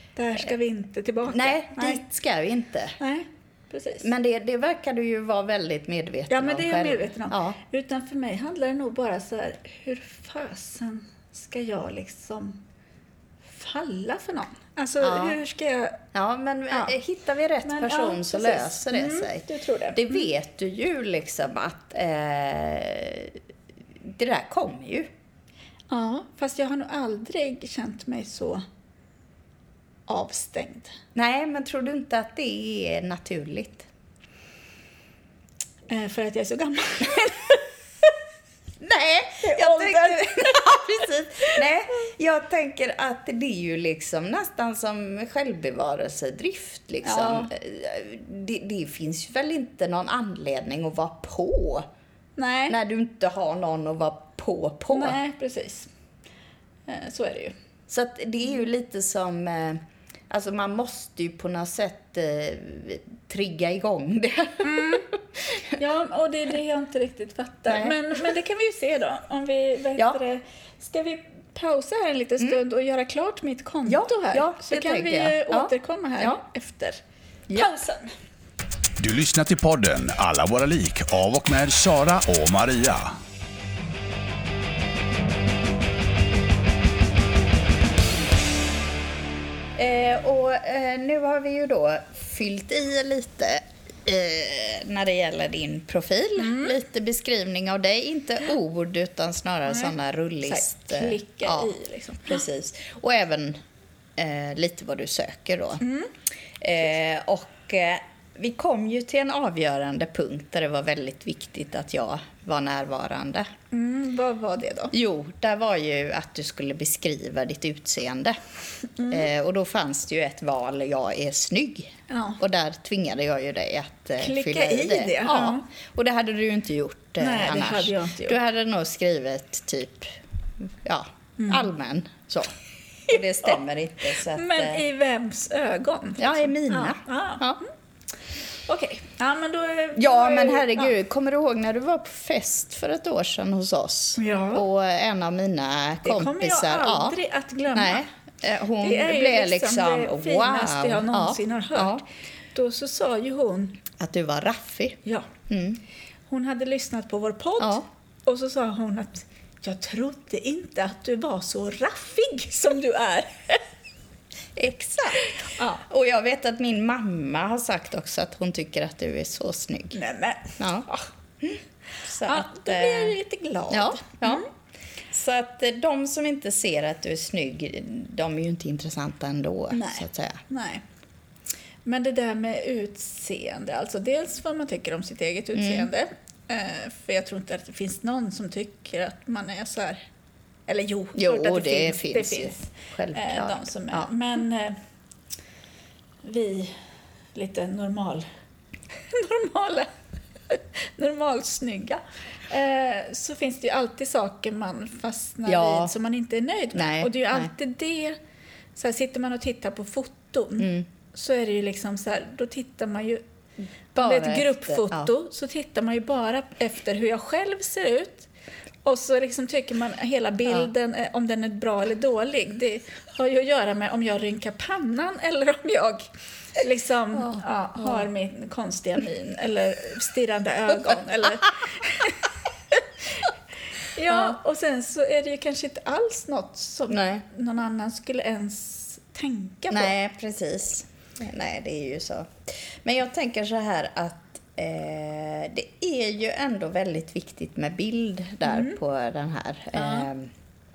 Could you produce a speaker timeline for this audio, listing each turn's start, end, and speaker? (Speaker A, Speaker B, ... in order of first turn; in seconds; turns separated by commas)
Speaker A: 0.1-2.0, Speaker B: 1.2-3.0, Speaker A: 3.0-4.1, Speaker B: 4.0-7.6, Speaker A: 6.3-12.6, Speaker A: 13.5-16.0, Speaker B: 15.0-15.4, Speaker B: 16.1-23.4, Speaker A: 17.6-20.3, Speaker B: 24.0-25.1, Speaker A: 25.9-28.6, Speaker A: 30.1-30.9, Speaker B: 31.1-33.9, Speaker A: 35.9-37.7, Speaker B: 38.8-51.9, Speaker A: 39.4-41.6, Speaker A: 47.0-47.5, Speaker A: 52.4-52.8, Speaker B: 52.7-55.2, Speaker A: 54.9-55.9, Speaker A: 56.9-57.5, Speaker B: 57.9-65.7, Speaker A: 64.6-65.1, Speaker A: 65.7-77.0, Speaker B: 67.7-68.3, Speaker B: 73.8-76.4, Speaker B: 77.5-77.7, Speaker A: 77.5-78.1, Speaker C: 79.0-83.2, Speaker B: 89.8-101.7, Speaker A: 96.4-96.8, Speaker A: 99.7-99.9, Speaker A: 100.4-102.4, Speaker B: 102.2-103.6, Speaker B: 104.2-105.8, Speaker A: 105.8-106.1, Speaker B: 106.6-113.5, Speaker A: 113.7-114.9, Speaker B: 114.9-118.4, Speaker A: 119.0-119.3, Speaker B: 119.0-134.8, Speaker A: 122.1-122.4, Speaker A: 124.2-125.7, Speaker A: 127.2-128.3, Speaker A: 131.4-131.7, Speaker A: 134.1-137.7, Speaker B: 136.2-137.6, Speaker A: 138.6-140.9, Speaker B: 139.9-147.2, Speaker A: 144.2-144.6, Speaker A: 146.0-148.1, Speaker B: 147.7-152.0, Speaker A: 148.8-153.8, Speaker B: 153.9-155.8, Speaker A: 156.3-163.6, Speaker B: 157.6-157.8, Speaker B: 164.6-165.2, Speaker A: 165.2-165.8, Speaker B: 165.8-170.0, Speaker A: 169.9-171.1, Speaker B: 170.6-170.9, Speaker B: 171.4-173.2, Speaker A: 172.2-174.5, Speaker B: 173.7-174.5, Speaker B: 175.1-180.4, Speaker A: 179.7-180.8, Speaker A: 181.8-190.0, Speaker B: 185.5-185.9, Speaker A: 190.7-194.8, Speaker B: 191.1-194.1, Speaker A: 196.2-196.8, Speaker A: 197.3-198.2, Speaker A: 199.0-199.9, Speaker A: 200.5-208.2, Speaker B: 205.4-205.9, Speaker B: 206.7-207.5, Speaker A: 208.7-213.2, Speaker B: 210.6-210.8, Speaker B: 213.9-215.1, Speaker A: 214.0-218.3, Speaker A: 218.8-226.1, Speaker A: 226.6-233.3, Speaker B: 227.2-228.0, Speaker A: 233.8-239.9, Speaker B: 234.1-234.4, Speaker B: 236.9-237.2, Speaker B: 239.7-250.3, Speaker A: 248.4-248.8, Speaker A: 249.7-250.1